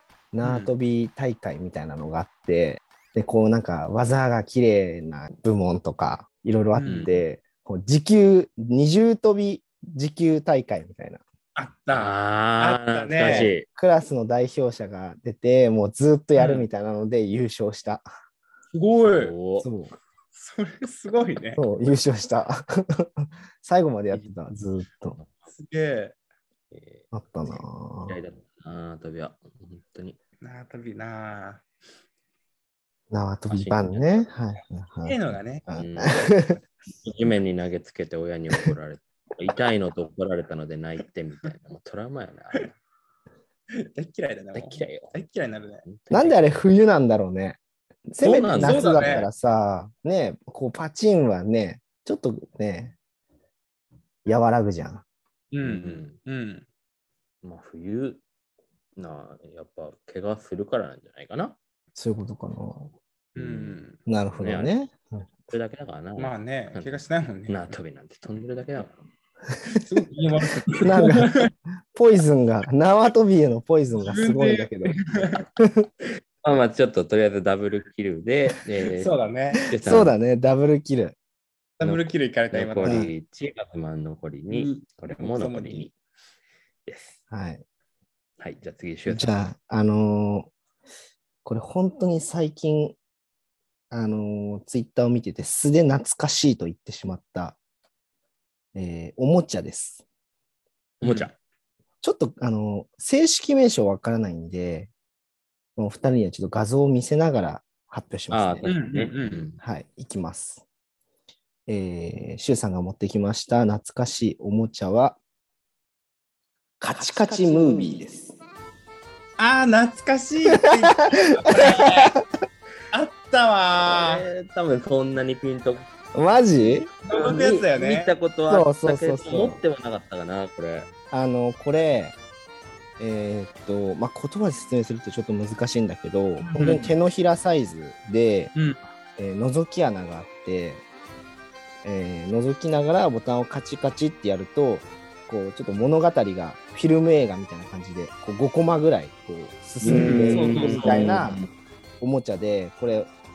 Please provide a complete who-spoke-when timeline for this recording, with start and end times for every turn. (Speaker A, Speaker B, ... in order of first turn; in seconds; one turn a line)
Speaker A: 0.3-11.2
Speaker B: 0.4-0.7
Speaker B: 6.7-7.1
Speaker C: 6.9-7.2
Speaker B: 11.6-13.5
Speaker C: 11.9-13.7
Speaker A: 13.2-18.1
Speaker B: 16.4-16.7
Speaker B: 18.7-19.4
Speaker C: 19.1-19.7
Speaker A: 19.6-19.9
Speaker B: 20.3-21.6
Speaker A: 21.6-25.2
Speaker B: 25.5-26.2
Speaker C: 26.7-30.2
Speaker A: 27.1-28.2
Speaker B: 30.4-31.6
Speaker A: 33.1-36.6
Speaker C: 33.5-34.3
Speaker B: 35.0-35.6
Speaker C: 35.7-36.4
Speaker C: 37.0-42.8
Speaker B: 43.8-45.9
Speaker C: 44.5-45.2
Speaker C: 45.9-46.5
Speaker A: 46.1-53.0
Speaker C: 48.2-49.3
Speaker B: 48.5-49.3
Speaker A: 54.2-55.0
Speaker B: 55.5-56.7
Speaker C: 55.6-56.2
Speaker C: 57.4-58.2
Speaker C: 59.0-61.6
Speaker A: 62.0-62.9
Speaker B: 63.4-64.0
Speaker C: 63.4-63.8
Speaker A: 64.1-65.3
Speaker C: 64.4-64.8
Speaker C: 65.5-69.0
Speaker B: 66.2-67.7
Speaker A: 69.5-69.8
Speaker B: 69.8-71.5
Speaker A: 70.8-75.0
Speaker B: 74.0-75.4
Speaker A: 75.6-75.9
Speaker C: 76.4-79.1
Speaker B: 79.0-79.7
Speaker C: 79.7-80.2
Speaker A: 79.8-81.2
Speaker B: 81.8-83.1
Speaker C: 81.8-85.9
Speaker A: 82.8-83.1
Speaker B: 84.5-85.9
Speaker C: 86.9-87.2
Speaker A: 87.3-87.6
Speaker C: 88.4-89.4
Speaker A: 89.1-90.5
Speaker A: 91.5-93.0
Speaker A: 93.9-97.6
Speaker A: 98.8-100.0
Speaker C: 101.0-101.3
Speaker B: 101.0-101.3
Speaker A: 102.0-104.9
Speaker A: 105.8-108.8
Speaker C: 108.3-109.6
Speaker B: 108.7-109.5
Speaker A: 109.6-110.7
Speaker A: 111.7-115.2
Speaker A: 116.8-118.4
Speaker C: 116.9-117.8
Speaker B: 119.4-122.2
Speaker A: 120.5-122.2
Speaker B: 122.9-124.3
Speaker C: 123.8-125.9
Speaker A: 126.1-126.9
Speaker C: 126.8-130.9
Speaker B: 127.1-128.1
Speaker A: 128.5-129.6
Speaker A: 131.1-132.2
Speaker A: 133.0-138.5
Speaker B: 136.4-136.9
Speaker B: 138.5-138.8
Speaker A: 139.2-140.8
Speaker A: 141.8-151.4
Speaker C: 149.8-151.5
Speaker B: 149.8-151.2
Speaker A: 152.0-153.2